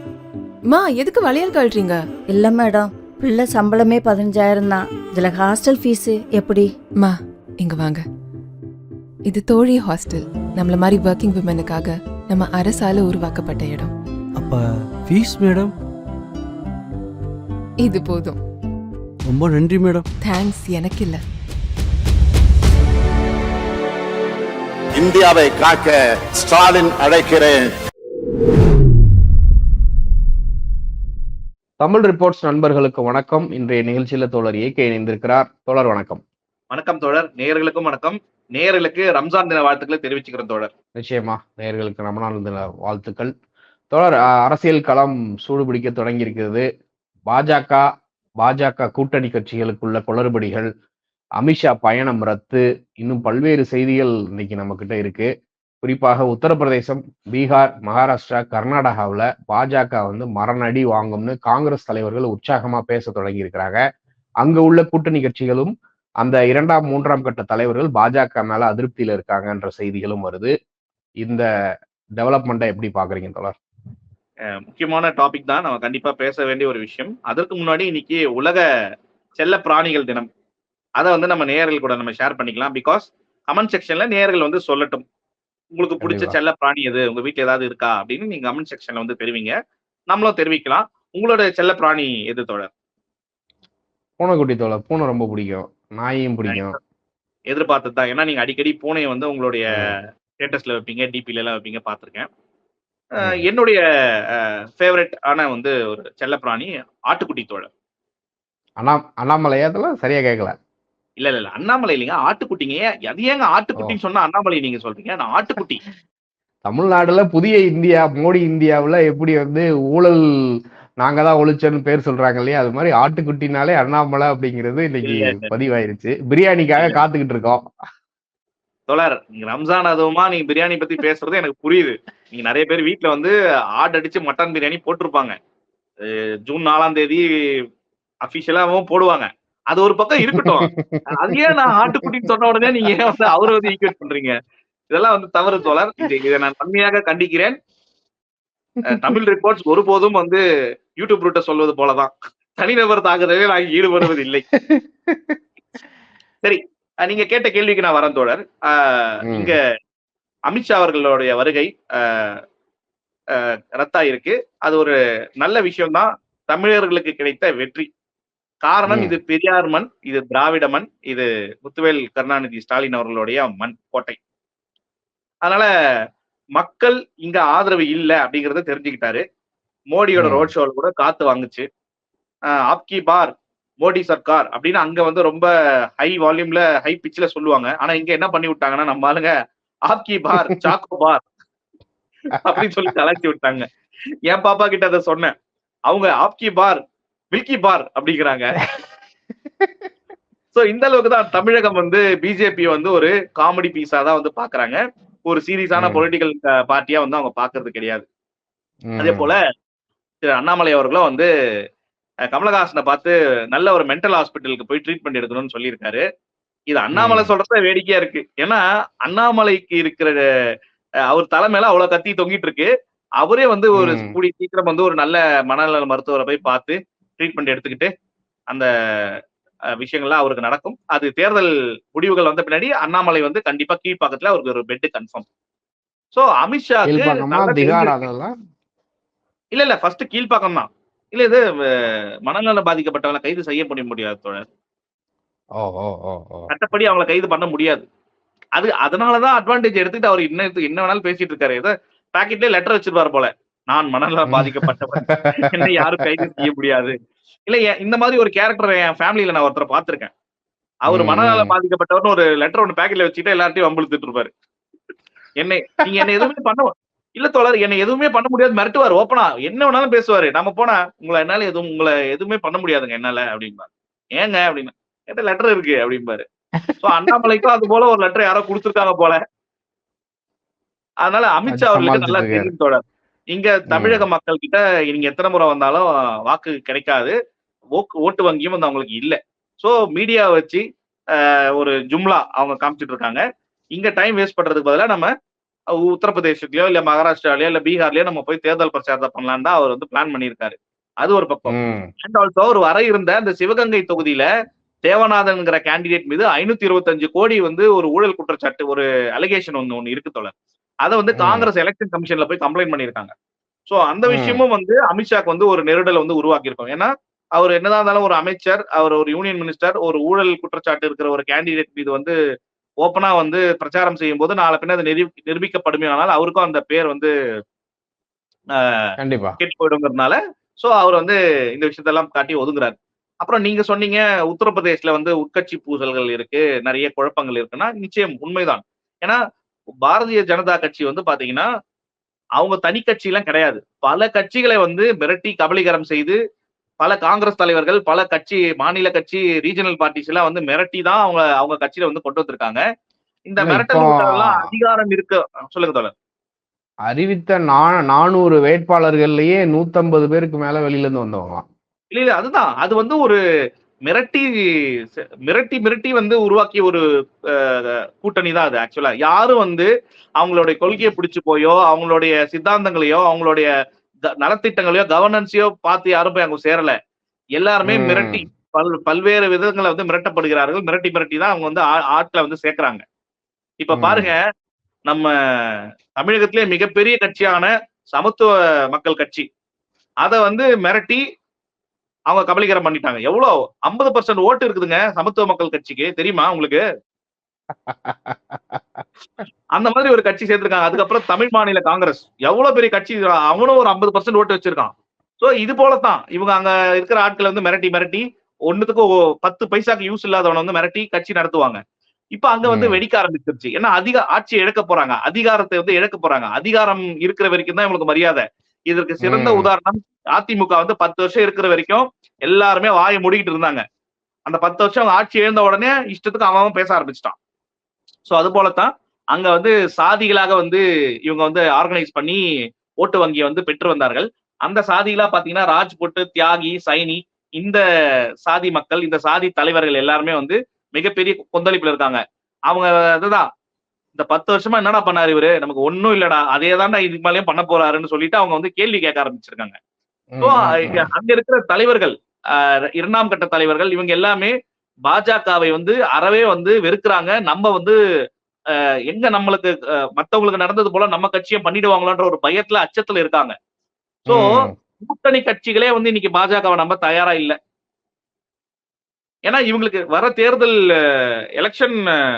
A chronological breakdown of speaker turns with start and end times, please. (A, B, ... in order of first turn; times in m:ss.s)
0:00.7-0:02.0 A
0:02.3-0:06.7 B
0:07.0-0:08.0 A
0:09.3-0:13.9 A
0:14.3-0:15.7 C
0:17.8-0:18.4 A
0:19.2-0:20.1 C
0:20.2-0:21.2 A
0:24.9-0:27.7 D
0:31.8-0:36.2 E
0:36.7-0:40.7 F
0:41.0-0:43.3 E
0:43.9-0:46.6 E
0:47.3-0:47.8 E
0:48.4-0:50.7 E
0:51.4-0:55.3 E
0:55.8-1:03.8 E
1:04.4-1:05.7 E
1:06.2-1:10.5 E
1:12.2-1:13.5 E
1:14.7-1:18.6 F
1:19.4-1:20.3 F
1:21.0-1:25.0 F
1:25.7-1:29.5 F
1:26.0-1:26.4 E
1:30.1-1:32.7 F
1:34.2-1:36.8 E
1:36.5-1:36.8 F
1:37.5-1:42.3 F
1:43.2-1:43.8 F
1:43.2-1:43.4 E
1:44.3-1:47.7 F
1:48.8-1:50.5 E
1:51.2-1:55.8 F
1:56.6-2:00.2 E
2:01.0-2:07.6 E
2:05.0-2:05.5 F
2:08.9-2:15.3 F
2:16.0-2:17.2 F
2:18.2-2:24.3 F
2:20.3-2:22.1 E
2:24.9-2:27.6 F
2:28.9-2:30.4 F
2:31.0-2:34.4 F
2:34.5-2:35.4 E
2:36.4-2:39.6 F
2:39.3-2:39.5 E
2:40.5-2:42.4 F
2:43.4-2:47.9 F
2:48.6-2:54.2 F
2:48.9-2:49.2 E
2:56.6-2:59.2 F
2:59.9-3:01.6 F
3:00.2-3:00.5 E
3:02.7-3:03.3 F
3:03.8-3:09.3 F
3:09.9-3:11.2 F
3:12.4-3:13.6 F
3:14.3-3:15.3 F
3:15.9-3:16.8 F
3:17.3-3:18.6 F
3:20.5-3:28.0 F
3:25.8-3:26.0 E
3:28.9-3:29.3 E
3:29.0-3:29.4 F
3:30.2-3:31.3 F
3:32.3-3:36.0 F
3:36.7-3:40.1 F
3:36.9-3:37.3 E
3:41.1-3:42.7 F
3:43.2-3:47.9 F
3:43.8-3:44.2 E
3:48.5-3:49.1 F
3:49.8-3:55.2 F
3:56.1-3:58.0 F
3:56.9-3:58.3 E
3:59.5-4:04.4 F
4:05.6-4:06.5 E
4:06.5-4:07.8 F
4:08.6-4:16.9 F
4:14.3-4:16.3 E
4:17.5-4:20.1 F
4:20.8-4:24.3 F
4:20.9-4:21.5 E
4:25.4-4:36.2 F
4:36.8-4:39.2 F
4:36.8-4:37.1 E
4:41.0-4:47.1 F
4:41.5-4:42.5 E
4:43.7-4:44.0 E
4:47.8-4:50.6 F
4:51.2-4:53.2 F
4:53.7-4:55.1 F
4:55.8-5:04.3 F
5:01.5-5:01.9 E
5:04.8-5:10.3 F
5:10.8-5:13.1 F
5:11.1-5:11.5 E
5:13.7-5:22.1 F
5:14.1-5:14.4 E
5:22.8-5:27.1 F
5:28.6-5:39.2 F
5:29.0-5:29.4 E
5:39.8-5:41.5 F
5:42.4-5:46.2 F
5:46.8-5:52.6 F
5:53.3-5:55.9 F
5:53.4-5:54.5 E
5:56.9-6:01.4 E
6:01.9-6:03.2 F
6:03.9-6:04.2 F
6:05.3-6:06.8 F
6:07.3-6:13.5 F
6:14.2-6:16.7 F
6:17.4-6:22.8 F
6:17.6-6:18.2 E
6:23.6-6:24.2 F
6:23.7-6:24.1 E
6:24.9-6:29.2 F
6:30.0-6:31.0 F
6:32.1-6:36.6 F
6:37.6-6:39.2 E
6:39.5-6:51.6 F
6:52.1-7:03.6 F
6:52.4-6:52.8 E
6:59.0-6:59.5 E
7:04.2-7:07.2 F
7:08.0-7:12.2 F
7:12.8-7:17.6 F
7:18.2-7:23.2 F
7:23.9-7:29.6 F
7:30.1-7:30.8 E
7:30.2-7:34.3 F
7:34.8-7:37.7 F
7:38.9-7:43.3 F
7:44.1-7:44.5 E
7:44.1-7:47.4 F
7:49.2-7:51.9 F